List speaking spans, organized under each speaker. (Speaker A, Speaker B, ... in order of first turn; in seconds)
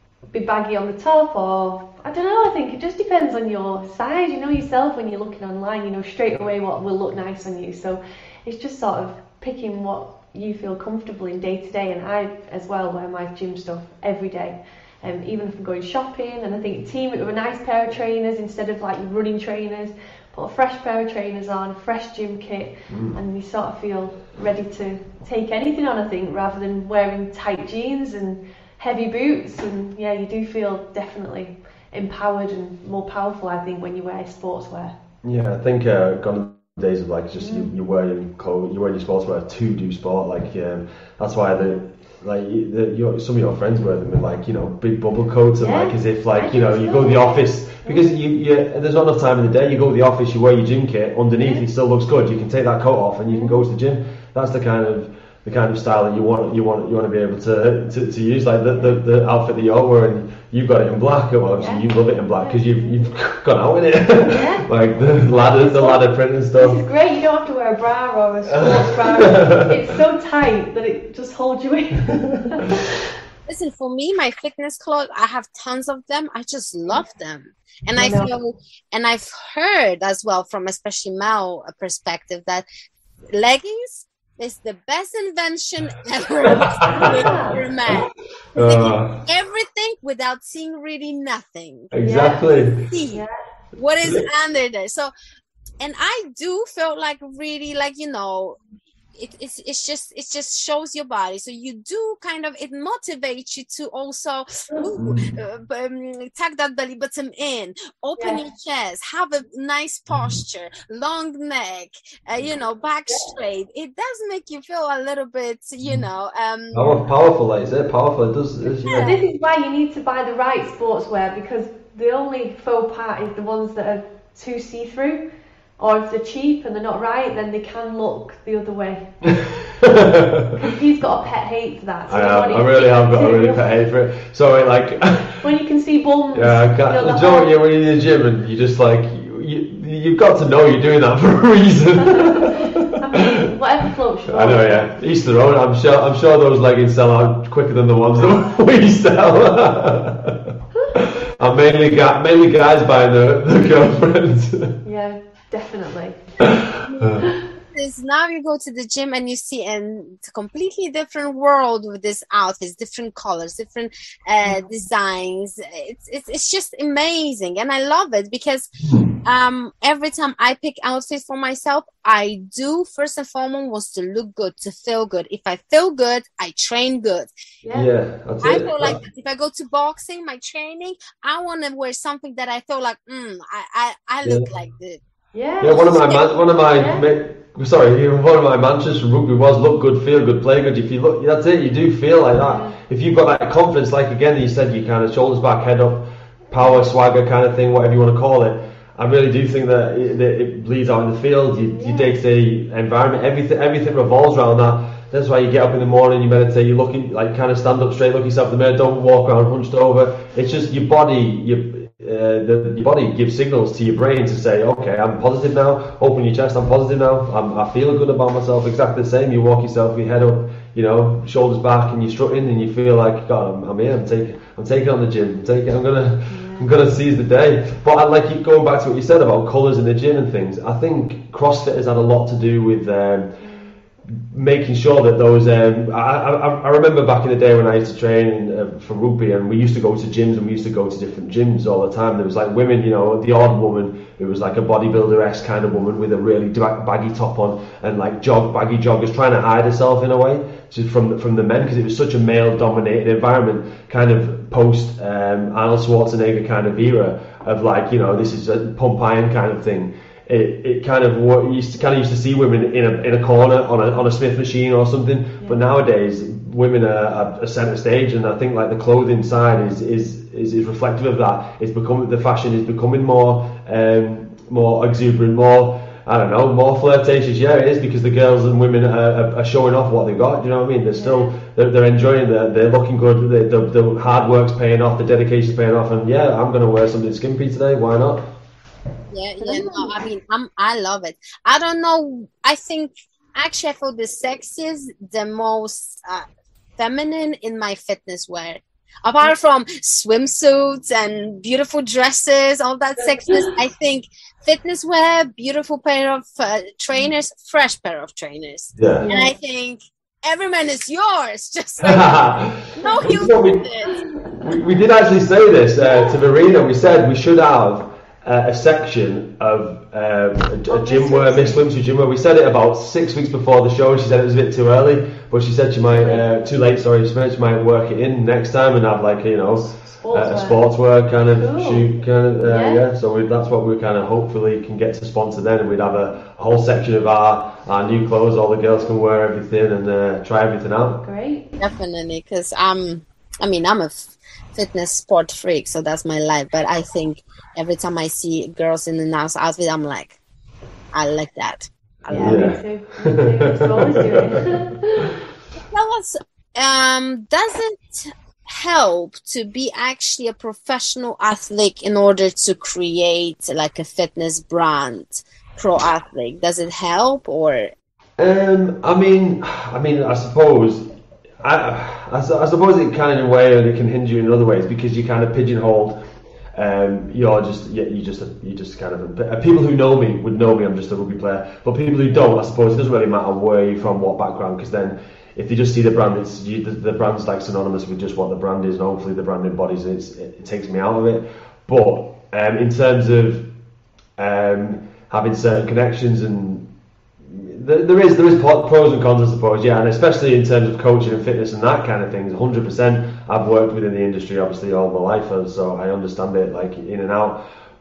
Speaker A: 0.3-34.9, 37.3-37.7, 41.5-41.8, 45.6-48.2, 51.4-51.6, 53.3-53.6, 61.6-62.9, 64.2-64.7, 65.3-66.0, 66.5-73.0, 78.0-78.3, 86.5-87.6, 92.0-92.5, 93.1-93.3, 118.8-125.2, 125.8-129.3, 130.5-133.7, 135.3-137.6, 142.0-144.9, 154.8-156.2, 177.6-177.9, 185.3-186.2, 186.7-187.1, 192.4-192.8, 196.5-196.8, 201.7-202.1, 226.3-226.7, 233.4-233.7, 280.9-281.3, 289.4-290.0, 303.1-303.5, 309.0-309.3, 312.8-313.2, 313.9-314.4, 315.9-316.2, 320.7-321.7, 325.9-326.2, 329.9-330.6, 331.4-331.9, 332.4-332.8, 341.0-341.6, 352.1-355.2
Speaker B: 22.9-23.2, 35.2-66.8, 68.5-69.9, 72.0-72.6, 86.6-89.2, 91.9-92.9, 105.0-105.2, 116.7-119.1, 129.3-130.6, 132.1-135.4, 136.3-143.4, 144.3-154.8, 156.4-157.2, 177.7-179.0, 184.2-184.5, 185.6-233.4, 234.1-288.2, 308.8-309.1, 311.8-313.6, 314.4-341.0, 352.1-355.1, 368.2-370.8, 371.4-376.0, 376.5-393.5, 394.2-396.7, 397.2-407.4
Speaker C: 73.5-82.7, 83.3-91.9, 92.7-93.2, 93.7-95.1, 95.8-98.6, 99.1-117.0, 118.8-119.2, 156.8-168.7, 169.2-177.3, 178.4-185.0, 185.6-186.4, 289.1-296.2, 296.8-313.9, 341.6-350.2, 350.9-352.6, 355.7-367.7